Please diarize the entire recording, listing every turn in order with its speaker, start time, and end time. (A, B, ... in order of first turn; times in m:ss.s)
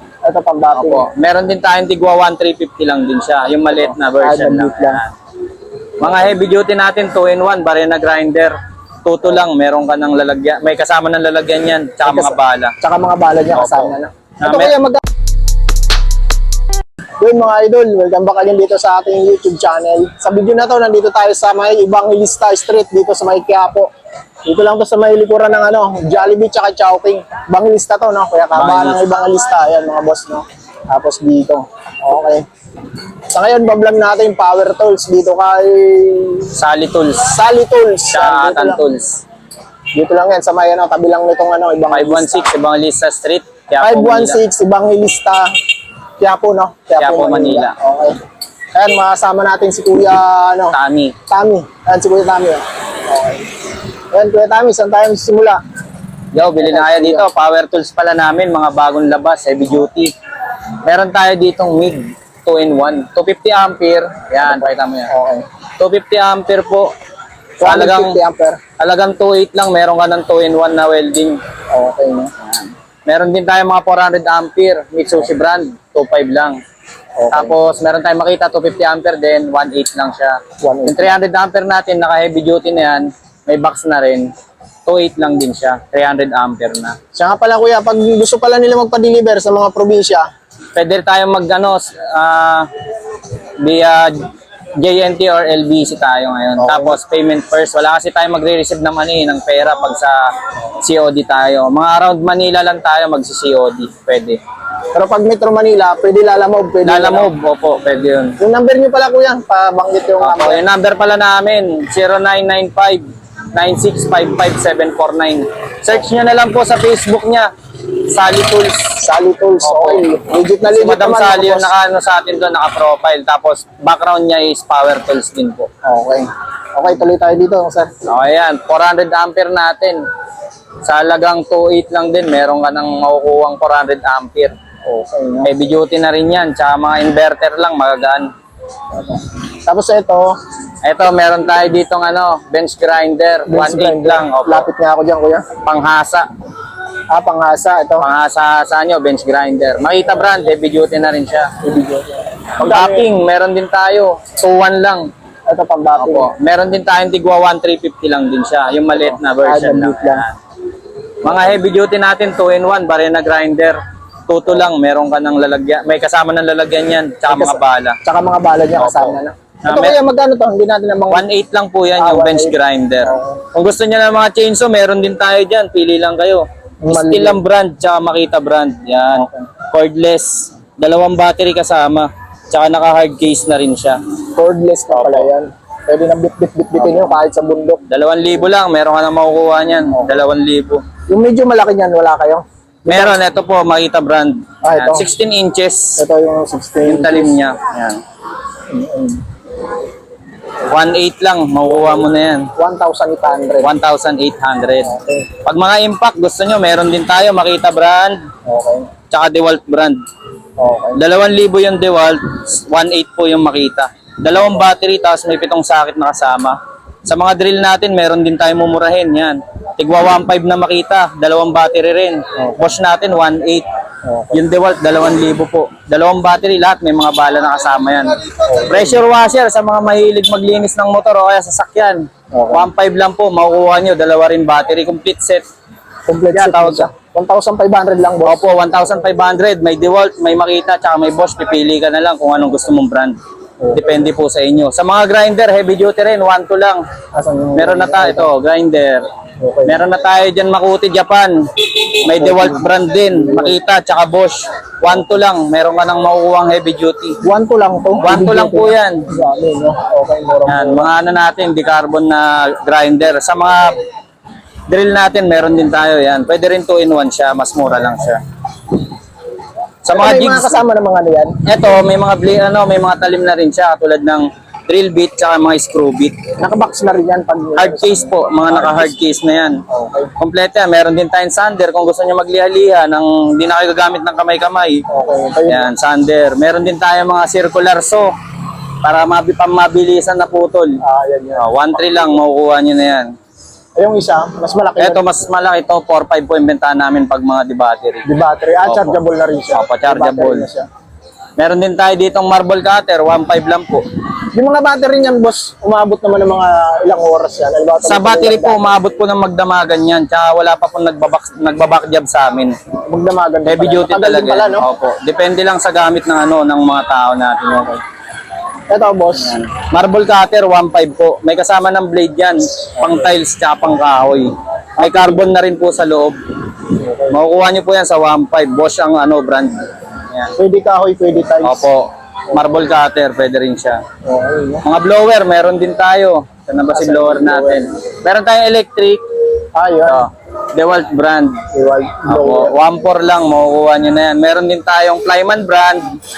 0:00.2-0:01.1 A
0:00.7-0:05.1 B
0:04.1-0:05.0 A
0:06.0-0:12.7 B
0:12.0-0:15.0 A
0:13.5-0:14.7 B
0:17.2-0:23.9 A
0:24.5-0:32.5 A
0:28.5-0:29.0 B
0:33.3-0:36.5 A
0:36.5-0:37.4 B
0:37.2-0:38.8 A
0:38.1-0:39.2 B
0:39.9-0:42.5 A
0:41.9-0:44.4 B
0:43.8-0:45.5 A
0:46.2-0:48.2 A
0:47.0-0:47.8 B
0:48.7-0:50.8 A
0:50.7-0:51.2 B
0:51.3-0:53.5 A
0:54.1-0:55.6 A
0:56.3-1:00.1 B
0:56.6-0:57.3 A
1:00.8-1:05.1 B
1:04.4-1:05.5 A
1:05.8-1:06.9 B
1:07.6-1:08.6 A
1:07.6-1:08.2 B
1:08.8-1:11.4 B
1:11.7-1:12.3 A
1:12.4-1:16.6 B
1:17.2-1:17.6 A
1:17.3-1:24.3 B
1:20.6-1:21.2 A
1:24.9-1:27.0 B
1:27.1-1:30.3 A
1:30.8-1:32.7 B
1:33.6-1:40.3 B
1:36.6-1:37.0 A
1:40.8-1:44.4 B
1:44.9-1:47.3 A
1:46.8-1:48.4 B
1:48.4-1:50.6 A
1:50.2-1:59.0 B
1:59.0-2:01.7 A
1:59.6-2:00.0 B
2:00.7-2:05.7 B
2:05.8-2:07.9 A
2:08.0-2:10.0 B
2:10.8-2:14.5 B
2:14.8-2:15.5 A
2:15.4-2:18.3 B
2:18.9-2:20.4 A
2:20.8-2:24.7 B
2:23.5-2:25.5 A
2:25.6-2:26.3 B
2:27.1-2:28.1 A
2:28.0-2:31.5 B
2:31.6-2:33.1 A
2:32.6-2:35.1 B
2:35.5-2:36.3 A
2:36.0-2:40.4 B
2:38.9-2:40.2 A
2:41.2-2:48.0 B
2:47.3-2:51.3 A
2:48.8-2:50.0 B
2:51.1-3:04.0 B
2:52.0-2:53.4 A
2:56.8-2:57.4 A
2:59.2-2:59.5 A
3:04.4-3:07.8 A
3:04.9-3:05.3 B
3:06.8-3:07.1 B
3:07.9-3:10.8 B
3:11.1-3:13.2 A
3:12.9-3:16.0 B
3:14.6-3:15.1 A
3:16.0-3:17.4 A
3:16.8-3:18.0 B
3:18.7-3:19.2 A
3:20.6-3:22.5 B
3:21.7-3:23.7 A
3:23.6-3:28.2 B
3:24.8-3:25.4 A
3:28.5-3:28.9 A
3:29.1-3:30.0 B
3:30.6-3:31.0 A
3:31.0-3:43.7 B
3:44.0-3:44.4 A
3:44.3-3:55.4 B
3:48.4-3:49.0 A
3:52.3-3:52.7 A
3:56.1-3:58.5 A
3:56.3-3:56.9 B
3:58.2-4:03.2 B
4:03.6-4:04.1 A
4:03.7-4:06.8 B
4:07.1-4:08.3 A
4:07.6-4:09.1 B
4:09.4-4:09.8 A
4:09.7-4:11.3 B
4:12.0-4:17.2 B
4:12.0-4:13.6 A
4:17.2-4:20.9 A
4:18.0-4:19.1 B
4:20.5-4:23.8 B
4:24.7-4:28.2 B
4:29.8-4:30.6 B
4:29.9-4:31.4 A
4:31.4-4:36.2 B
4:36.4-4:39.0 A
4:37.6-4:39.6 B
4:39.7-4:40.1 A
4:40.2-4:44.8 B
4:44.9-4:45.7 A
4:45.5-4:48.1 B
4:48.8-4:50.8 B
4:50.8-4:51.5 A
4:51.4-4:53.1 B
4:53.8-4:55.0 A
4:54.8-4:58.1 B
4:58.1-5:00.7 A
4:58.6-4:59.0 B
4:59.5-5:00.5 B
5:01.4-5:03.8 B
5:04.3-5:08.7 A
5:07.8-5:12.6 B
5:12.9-5:14.7 A
5:13.4-5:17.8 B
5:18.7-5:19.4 A
5:19.2-5:26.2 B
5:22.8-5:23.1 A
5:24.8-5:25.2 A
5:26.7-5:27.2 A
5:27.1-5:29.6 B
5:30.4-5:31.7 A
5:31.4-5:33.8 B
5:34.0-5:34.6 A
5:34.6-5:39.0 B
5:36.7-5:37.7 A
5:39.6-5:40.0 A
5:39.8-5:41.4 B
5:41.5-5:42.6 A
5:42.1-5:46.0 B